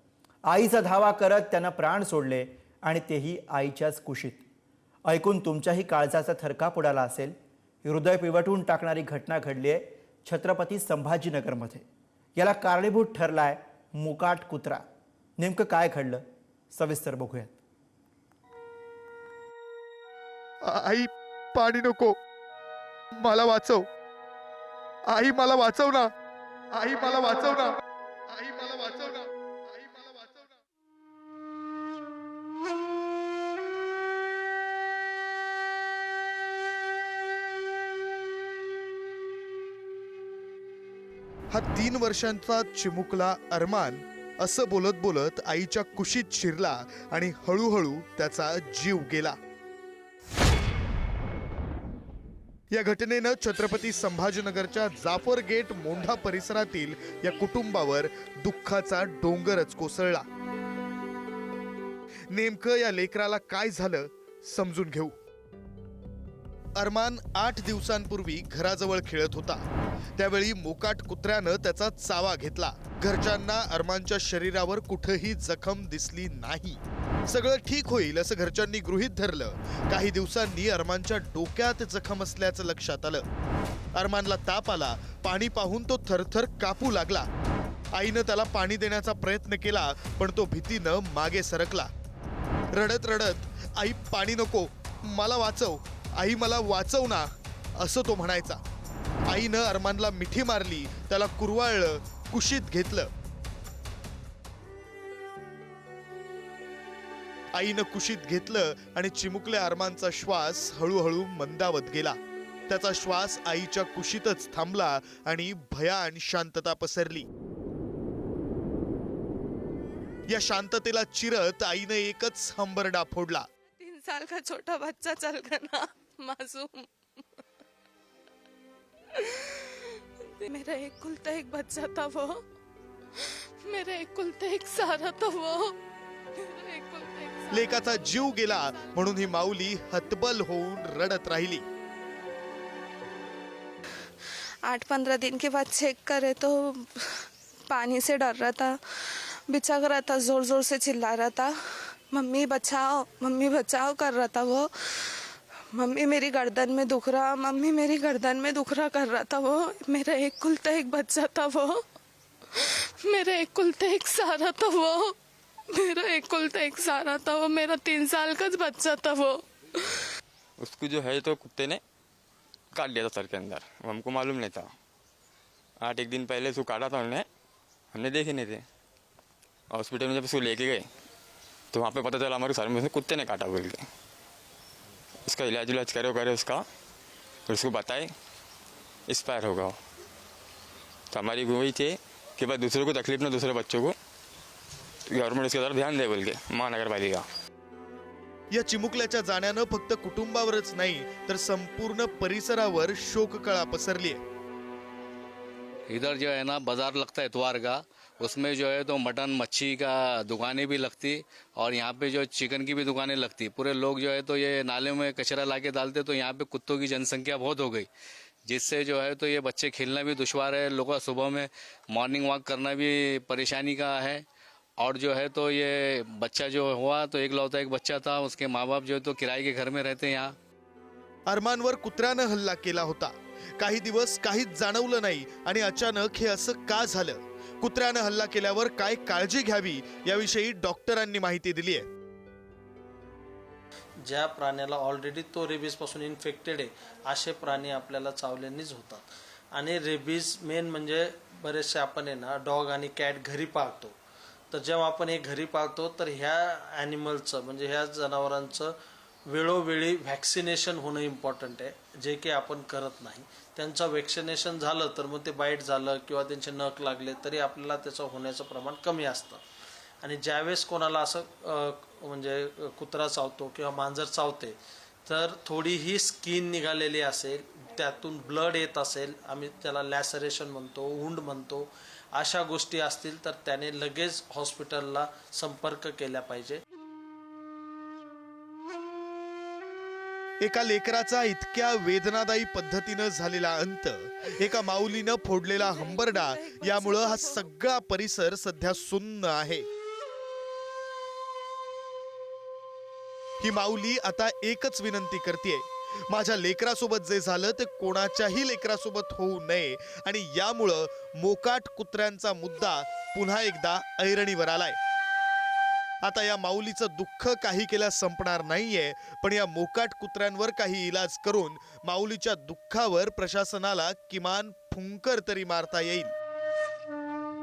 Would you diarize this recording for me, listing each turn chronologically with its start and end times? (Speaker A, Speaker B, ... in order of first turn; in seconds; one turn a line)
Speaker A: 0.5-4.4
Speaker A: 5.0-11.8
Speaker A: 12.3-14.8
Speaker A: 15.4-17.5
Speaker B: 20.6-22.2
Speaker B: 23.2-23.9
Speaker B: 25.1-26.1
Speaker B: 26.7-27.8
Speaker B: 28.3-30.4
Speaker B: 41.5-49.4
Speaker B: 52.7-60.2
Speaker B: 62.3-65.1
Speaker B: 66.8-69.7
Speaker B: 70.2-83.2
Speaker B: 83.9-87.3
Speaker B: 87.9-91.9
Speaker B: 92.7-98.6
Speaker B: 99.3-103.1
Speaker B: 107.5-112.2
Speaker B: 112.7-117.2
Speaker B: 120.3-123.5
Speaker C: 123.8-126.9
Speaker C: 129.1-132.4
Speaker C: 133.2-135.7
Speaker C: 136.3-138.8
Speaker B: 137.5-141.6
Speaker C: 144.7-148.8
Speaker C: 149.5-151.5
Speaker C: 152.1-155.1
Speaker C: 155.7-161.8
Speaker C: 162.6-165.1
Speaker C: 165.7-170.0
Speaker D: 170.6-171.8
Speaker D: 172.7-174.7
Speaker D: 175.8-177.2
Speaker D: 177.9-178.6
Speaker D: 179.7-180.9
Speaker D: 181.7-183.8
Speaker D: 185.2-186.6
Speaker D: 187.5-188.1
Speaker D: 189.1-189.7
Speaker D: 191.1-193.9
Speaker D: 195.1-197.2
Speaker B: 198.5-204.2
Speaker E: 205.9-217.9
Speaker E: 218.4-224.2
Speaker E: 224.8-230.4
Speaker B: 231.3-241.9
Speaker F: 244.0-253.9
Speaker F: 254.5-258.7
Speaker F: 259.3-269.4
Speaker F: 270.0-274.6
Speaker F: 275.1-286.6
Speaker B: 290.4-299.7
Speaker C: 295.6-297.4
Speaker B: 303.4-314.8
Speaker B: 316.0-326.1